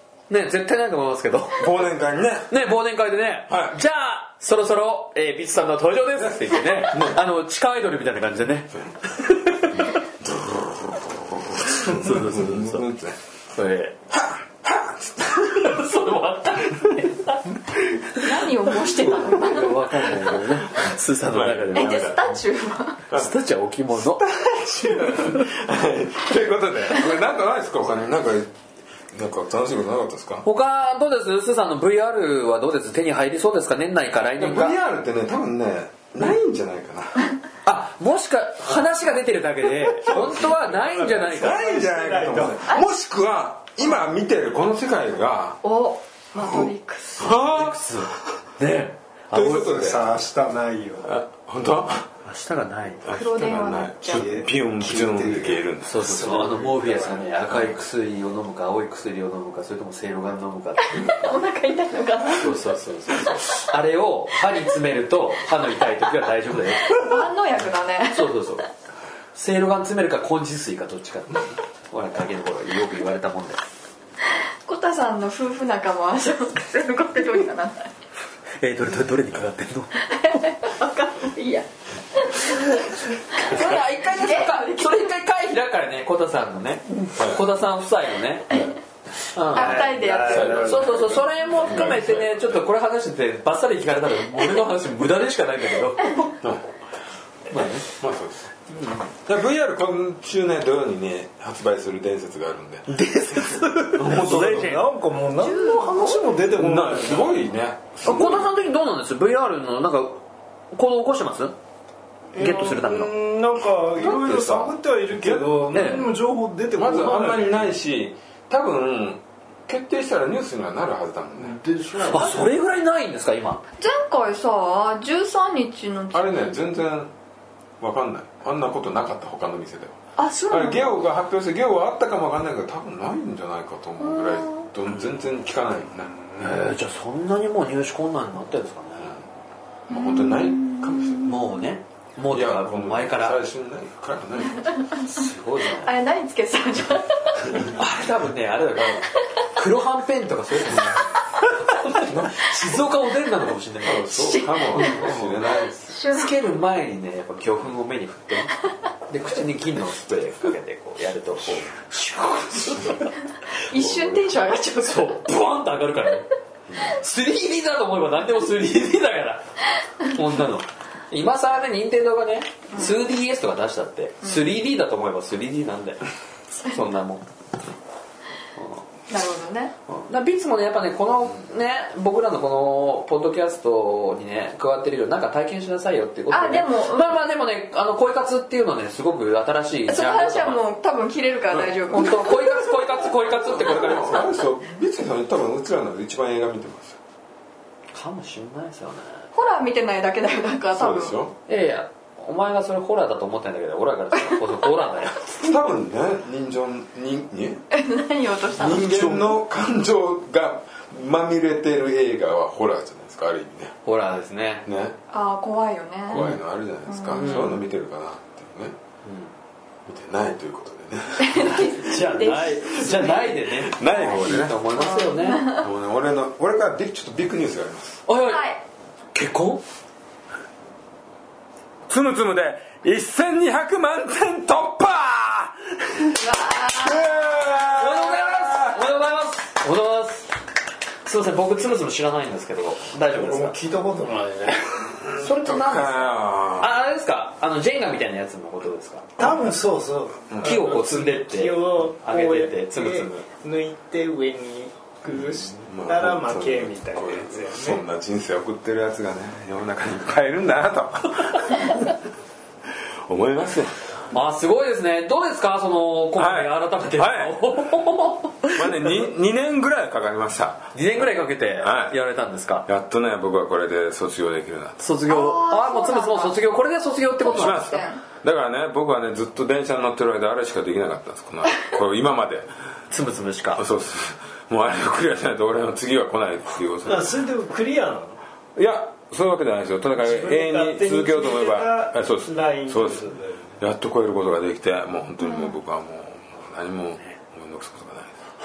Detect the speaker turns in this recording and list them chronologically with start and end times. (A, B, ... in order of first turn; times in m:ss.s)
0:00.3-0:01.7 A
0:01.6-0:02.5 B
0:02.5-0:10.0 A
0:03.5-0:03.8 B
0:06.2-0:07.2 B
0:10.2-0:13.2 B
0:11.8-0:12.9 A
0:13.5-0:14.0 A
0:14.1-0:15.8 B
0:15.4-0:17.6 A
0:18.2-0:19.9 C
0:18.9-0:22.2 A
0:20.7-0:22.2 B
0:21.7-0:23.0 C
0:23.1-0:24.2 A
0:24.1-0:28.5 B
0:29.1-0:30.5 B
0:30.4-0:34.8 A
0:34.4-0:37.3 B
0:37.6-0:41.7 A
0:40.1-0:40.4 B
0:40.1-0:42.7 D
0:41.1-0:45.6 B
0:45.6-0:47.4 C
0:46.4-0:48.1 B
0:47.4-0:49.7 A
0:49.3-0:50.2 B
0:49.3-0:51.1 D
0:51.0-0:52.1 B
0:52.2-0:53.2 A
0:53.0-0:56.3 B
0:53.1-0:54.4 C
0:54.1-0:57.4 D
0:55.8-1:01.2 A
1:00.9-1:02.6 C
1:02.3-1:07.2 A
1:06.9-1:08.4 C
1:08.1-1:08.7 A
1:09.3-1:13.6 A
1:14.7-1:17.9 C
1:18.6-1:20.1 A
1:20.1-1:25.1 C
1:23.3-1:28.7 A
1:27.2-1:27.5 B
1:29.3-1:30.0 A
1:29.5-1:30.7 C
1:29.5-1:31.2 D
1:29.6-1:32.6 B
1:30.6-1:36.3 A
1:37.5-1:37.9 A
1:37.5-1:38.5 B
1:39.1-1:44.9 B
1:42.9-1:44.8 A
1:43.8-1:47.4 D
1:45.4-1:46.3 C
1:46.5-1:48.5 B
1:48.0-1:50.2 A
1:50.7-1:51.6 A
1:52.3-1:57.7 D
1:52.4-1:53.1 A
1:53.9-1:56.1 B
1:55.7-1:56.1 A
1:56.7-2:02.5 B
2:01.4-2:02.5 D
2:02.1-2:03.6 A
2:03.8-2:06.6 C
2:06.1-2:07.1 B
2:07.8-2:10.0 B
2:10.2-2:11.0 C
2:10.5-2:16.1 B
2:14.0-2:14.7 C
2:16.0-2:16.6 D
2:16.4-2:19.2 A
2:19.9-2:21.3 B
2:19.9-2:21.7 C
2:21.3-2:23.4 A
2:22.3-2:24.7 B
2:24.9-2:25.2 C
2:25.1-2:25.9 A
2:25.7-2:27.7 C
2:27.7-2:35.4 A
2:32.0-2:32.5 B
2:33.8-2:36.0 B
2:34.1-2:35.0 C
2:35.9-2:36.3 C
2:36.1-2:43.1 A
2:43.5-2:45.3 C
2:43.7-2:44.3 B
2:44.8-2:56.0 A
2:52.7-2:53.0 C
2:56.6-2:57.2 A
2:59.1-2:59.7 C
2:59.9-3:10.6 A
3:06.3-3:07.2 C
3:09.9-3:13.0 C
3:11.9-3:14.3 A
3:13.3-3:17.0 B
3:17.9-3:19.2 A
3:19.4-3:21.2 C
3:20.7-3:21.4 B
3:21.5-3:25.3 A
3:25.4-3:27.6 B
3:27.7-3:28.9 C
3:28.6-3:33.7 B
3:28.6-3:29.3 A
3:33.8-3:34.7 A
3:34.7-3:35.0 B
3:35.1-3:36.3 C
3:36.1-3:38.8 B
3:36.1-3:36.4 A
3:36.9-3:37.5 C
3:37.1-3:37.6 A
3:39.0-3:39.3 A
3:39.8-3:41.8 B
3:41.3-3:45.7 C
3:41.4-3:45.5 A
3:43.4-3:44.6 B
3:45.6-3:48.0 B
3:48.1-3:48.4 A
3:48.2-3:48.6 C
3:49.1-3:49.6 A
3:51.9-3:58.8 B
3:56.1-3:57.1 C
3:57.8-4:00.4 A
4:01.0-4:03.6 A
4:03.1-4:04.9 D
4:05.0-4:06.7 B
4:05.2-4:09.2 A
4:09.2-4:17.8 D
4:10.3-4:10.7 B
4:10.4-4:13.3 A
4:15.1-4:22.0 B
4:23.1-4:23.9 B
4:24.1-4:28.9 A
4:26.2-4:27.4 B
4:28.5-4:30.7 B
4:30.7-4:32.7 A
4:31.6-4:32.0 B
4:32.7-4:34.9 B
4:34.8-4:37.7 A
4:35.1-4:38.0 C
4:37.3-4:42.5 B
4:42.9-4:43.6 A
4:43.6-4:47.2 B
4:46.8-4:48.2 D
4:48.6-4:58.2 B
4:50.0-4:53.6 D
4:55.2-4:55.6 C